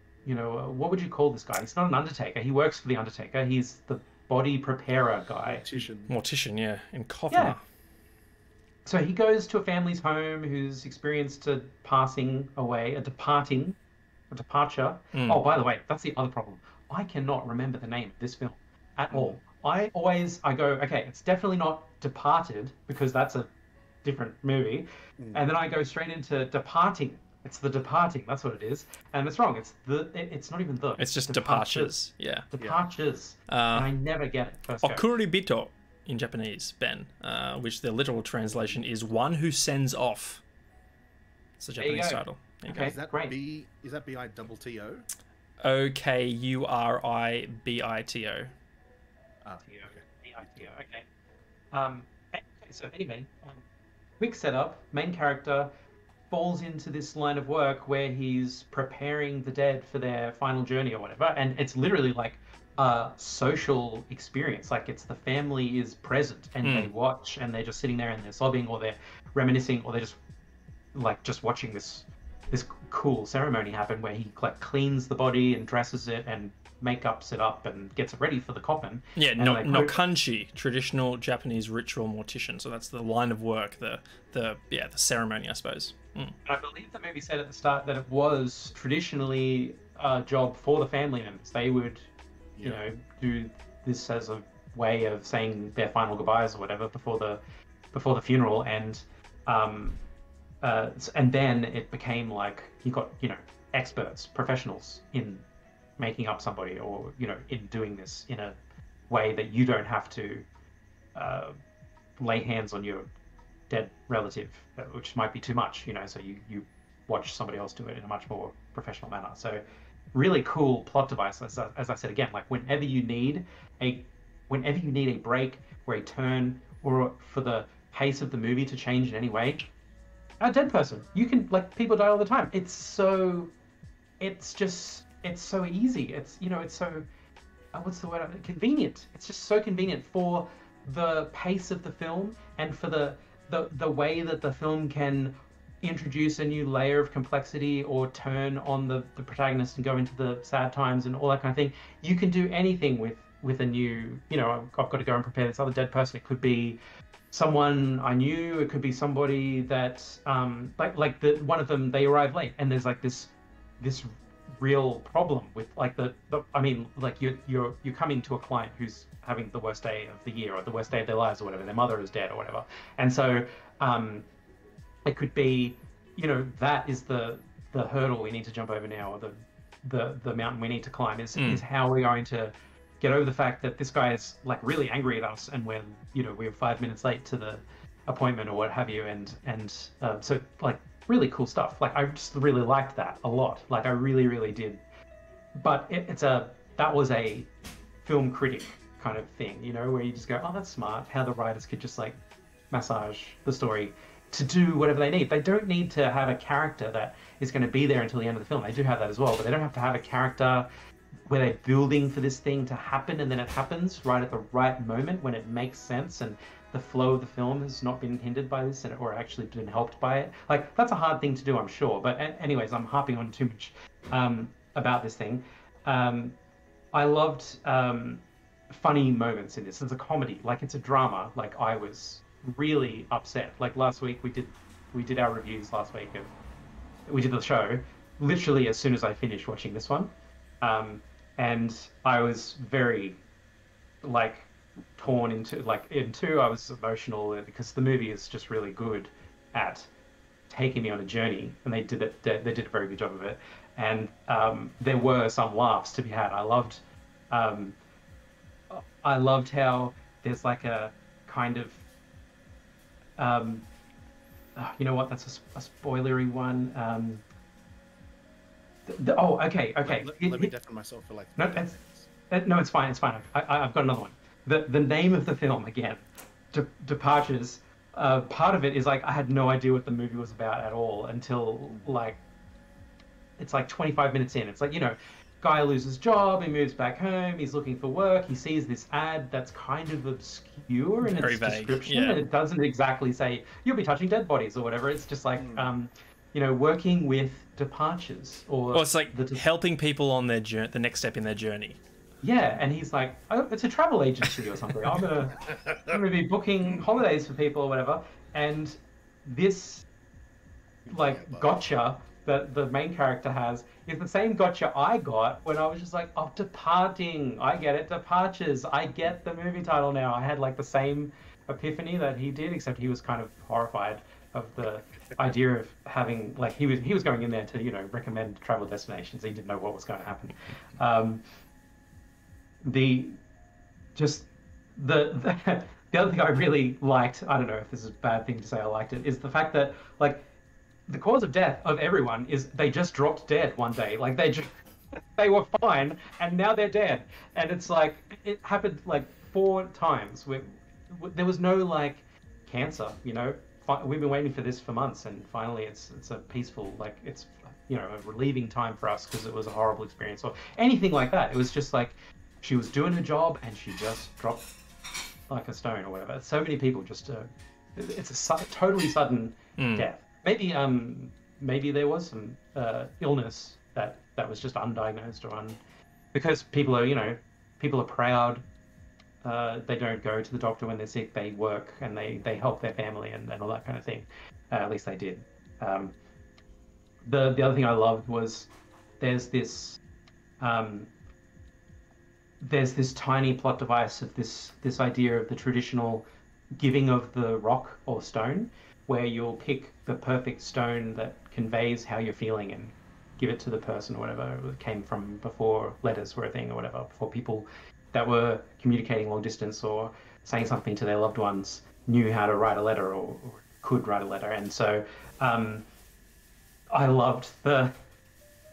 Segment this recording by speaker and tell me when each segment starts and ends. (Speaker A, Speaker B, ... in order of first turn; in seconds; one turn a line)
Speaker A: 0.2-5.7
Speaker B: 5.5-6.1
Speaker C: 6.1-7.6
Speaker A: 7.3-7.6
Speaker A: 8.8-13.8
Speaker A: 14.3-23.5
Speaker C: 15.1-15.4
Speaker B: 19.1-19.4
Speaker A: 24.0-31.9
Speaker C: 31.0-32.5
Speaker A: 32.5-35.0
Speaker C: 33.5-33.9
Speaker C: 34.8-40.4
Speaker B: 38.4-38.8
Speaker C: 41.6-42.9
Speaker A: 41.8-43.3
Speaker B: 42.8-45.0
Speaker C: 45.6-48.5
Speaker B: 49.4-50.0
Speaker A: 49.6-51.1
Speaker A: 51.7-53.6
Speaker A: 54.2-55.7
Speaker A: 56.3-70.2
Speaker C: 66.6-66.9
Speaker A: 70.9-80.0
Speaker C: 79.2-86.3
Speaker A: 86.4-92.1
Speaker A: 92.6-97.4
Speaker A: 97.9-100.0
Speaker A: 100.6-105.4
Speaker A: 106.0-108.5
Speaker A: 109.1-110.5
Speaker A: 111.1-111.5
Speaker A: 112.2-113.1
Speaker A: 113.7-129.7
Speaker A: 130.4-133.5
Speaker A: 134.2-137.0
Speaker A: 137.7-156.8
Speaker A: 157.3-174.2
Speaker A: 175.0-194.8
Speaker C: 181.3-181.6
Speaker A: 195.6-197.5
Speaker A: 198.0-202.2
Speaker A: 202.7-210.7
Speaker A: 211.3-226.3
Speaker A: 226.9-236.3
Speaker A: 237.1-240.1
Speaker A: 240.6-243.2
Speaker A: 244.0-249.9
Speaker A: 250.5-257.8
Speaker A: 258.7-261.8
Speaker A: 263.2-263.6
Speaker A: 264.6-267.2
Speaker A: 268.9-270.5
Speaker B: 269.8-272.1
Speaker A: 271.4-271.8
Speaker A: 272.3-282.2
Speaker A: 283.4-299.4
Speaker C: 291.0-292.2
Speaker B: 295.3-295.7
Speaker C: 298.7-301.8
Speaker A: 302.2-309.9
Speaker B: 305.4-306.0
Speaker B: 310.9-311.5
Speaker A: 310.9-331.2
Speaker A: 332.6-333.2
Speaker A: 333.9-340.2
Speaker A: 340.9-344.5
Speaker A: 345.1-364.5
Speaker A: 365.3-375.6
Speaker C: 369.6-369.9
Speaker A: 376.1-378.4
Speaker A: 379.2-385.9
Speaker A: 387.0-389.8
Speaker A: 390.4-390.9
Speaker A: 392.4-396.0
Speaker A: 396.6-415.6
Speaker A: 416.7-417.7